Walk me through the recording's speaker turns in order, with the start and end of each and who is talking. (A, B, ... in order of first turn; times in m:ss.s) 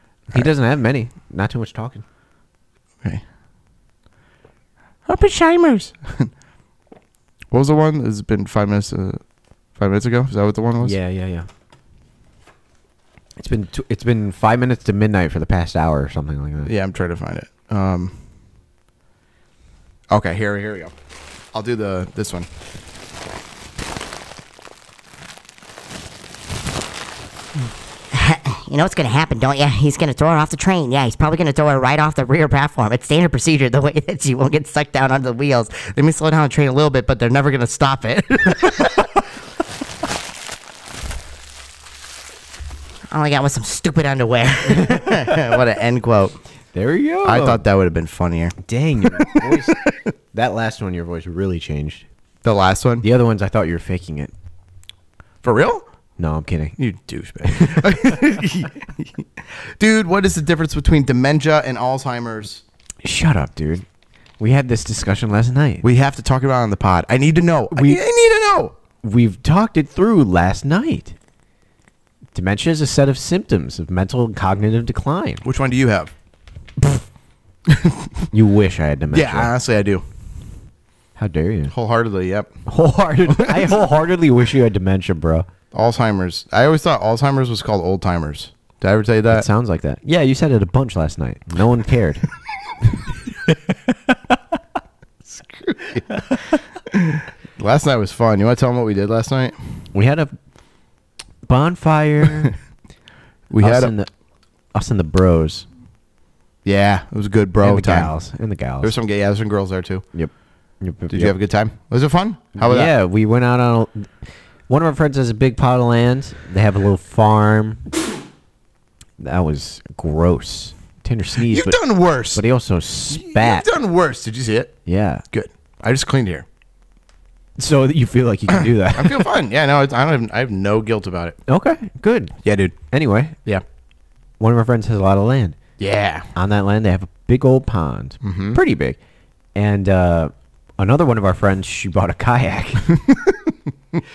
0:00.3-0:02.0 A
0:05.1-0:05.8 B
0:05.7-0:06.3 C
0:07.5-0:09.2 C
0:09.8-0:11.0 C
0:10.8-0:11.5 A
0:13.4-0:16.7 A
0:16.6-0:18.2 C
0:20.1-0:20.9 C
0:21.5-0:22.5 C
0:28.1-0:39.1 B
0:43.1-0:46.3 B
0:44.7-0:45.6 C
0:46.7-0:47.6 A
0:47.2-0:49.7 C
0:48.6-0:49.8 A
0:50.3-0:52.0 A
0:52.4-0:53.1 C
0:53.0-0:54.3 A
0:55.4-0:55.8 C
0:56.2-0:56.8 A
0:56.8-1:02.6 C
0:57.4-0:58.0 A
1:03.0-1:03.8 A
1:04.4-1:05.9 A
1:05.8-1:08.8 C
1:07.7-1:08.0 A
1:09.0-1:11.2 A
1:12.3-1:15.4 A
1:15.4-1:16.1 C
1:17.6-1:18.3 C
1:18.3-1:19.5 A
1:19.1-1:20.0 C
1:21.2-1:21.7 A
1:21.7-1:22.5 C
1:22.6-1:25.5 A
1:23.3-1:23.8 C
1:25.7-1:29.5 C
1:29.3-1:32.3 A
1:32.9-1:34.3 A
1:35.3-1:39.8 C
1:39.9-1:40.3 A
1:41.4-1:42.6 A
1:43.5-1:43.9 C
1:43.6-1:44.1 A
1:44.7-1:45.7 A
1:46.6-1:48.1 C
1:47.6-1:48.9 A
1:48.8-1:50.0 C
1:50.1-1:51.3 A
1:51.1-1:52.9 C
1:52.6-1:54.1 A
1:54.7-1:57.9 A
1:59.2-2:01.8 A
2:01.4-2:02.4 C
2:02.3-2:03.7 A
2:03.1-2:04.8 C
2:04.8-2:05.2 A
2:05.3-2:06.4 C
2:07.6-2:09.3 A
2:08.5-2:11.4 C
2:11.5-2:13.4 A
2:12.4-2:12.7 C
2:14.4-2:15.6 A
2:15.8-2:16.3 C
2:16.3-2:19.0 A
2:18.2-2:18.6 C
2:19.5-2:23.0 A
2:22.9-2:24.0 C